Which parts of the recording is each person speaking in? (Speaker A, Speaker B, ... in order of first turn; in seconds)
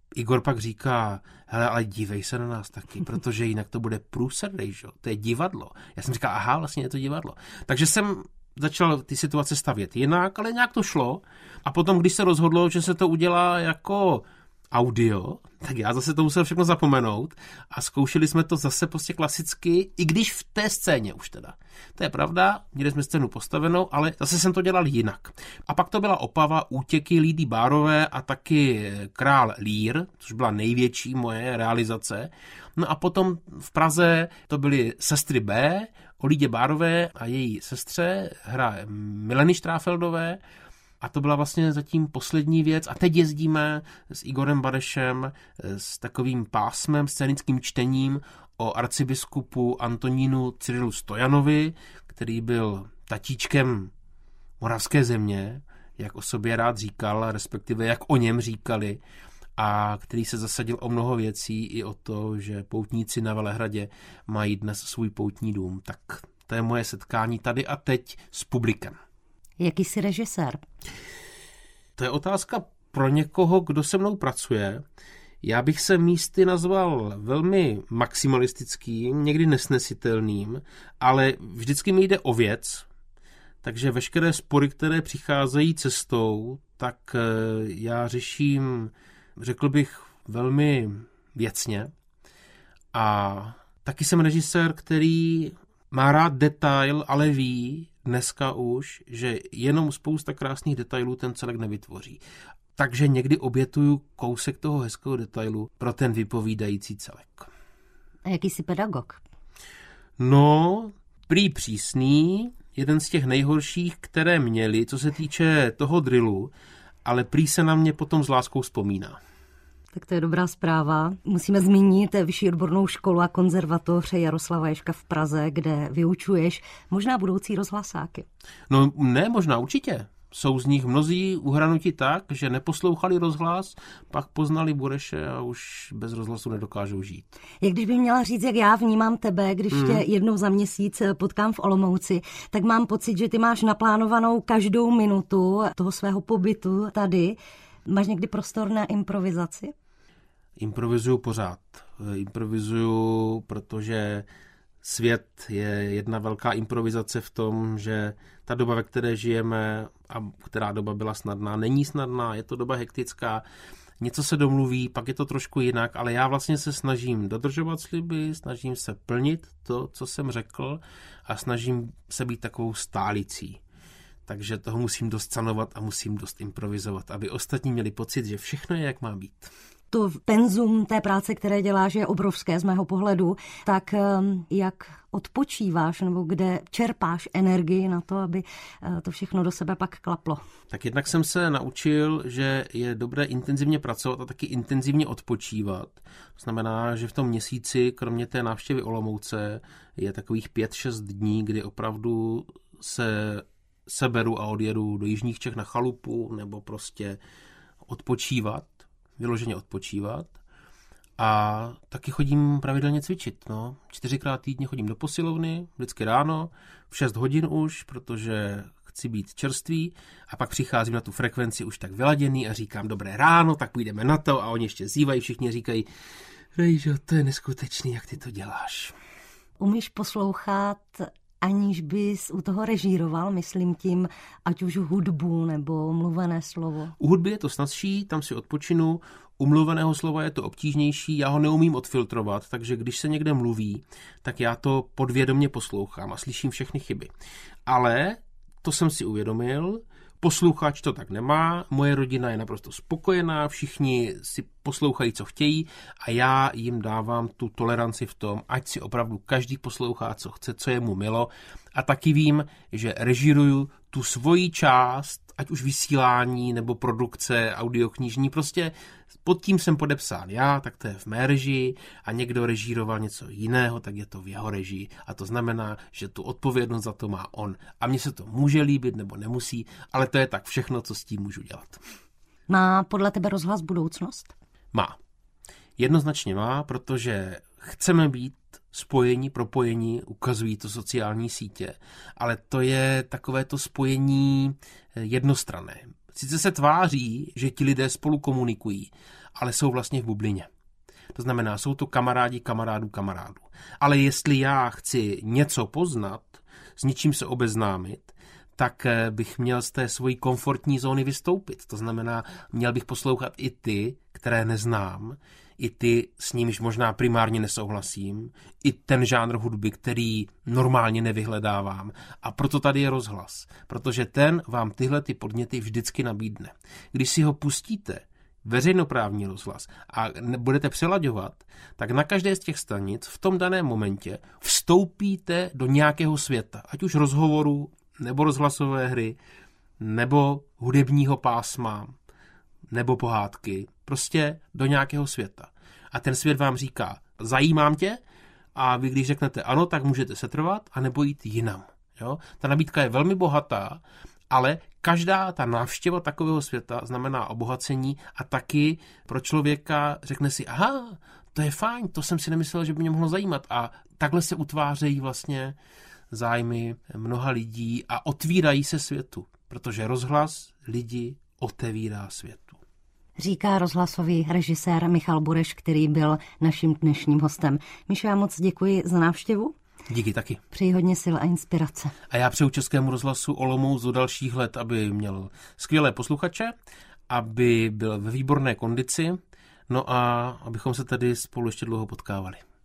Speaker A: 0.1-40.4, 41.0-53.9, 54.6-59.0, 59.6-69.0, 72.0-74.8, 75.4-82.9, 83.6-91.9, 92.9-102.2, 102.8-107.5, 110.2-116.5, 117.0-119.2, 128.7-137.3, 139.7-140.0, 150.6-154.2, 154.8-163.4, 164.0-173.6, 174.2-179.5, 190.7-207.2, 207.8-210.3, 211.2-225.8, 226.5-228.9, 237.0-247.1, 247.7-281.8, 285.8-300.5, 301.1-339.2, 339.8-341.9, 342.7-348.0, 348.5-365.6, 366.1-372.6, 379.9-380.4, 382.1-386.5, 387.1-389.2, 389.7-392.4
Speaker B: 69.6-70.6, 108.2-109.2, 119.9-128.2, 137.6-149.7, 179.9-190.4, 229.6-236.9, 282.5-284.3, 373.2-379.5, 380.5-381.9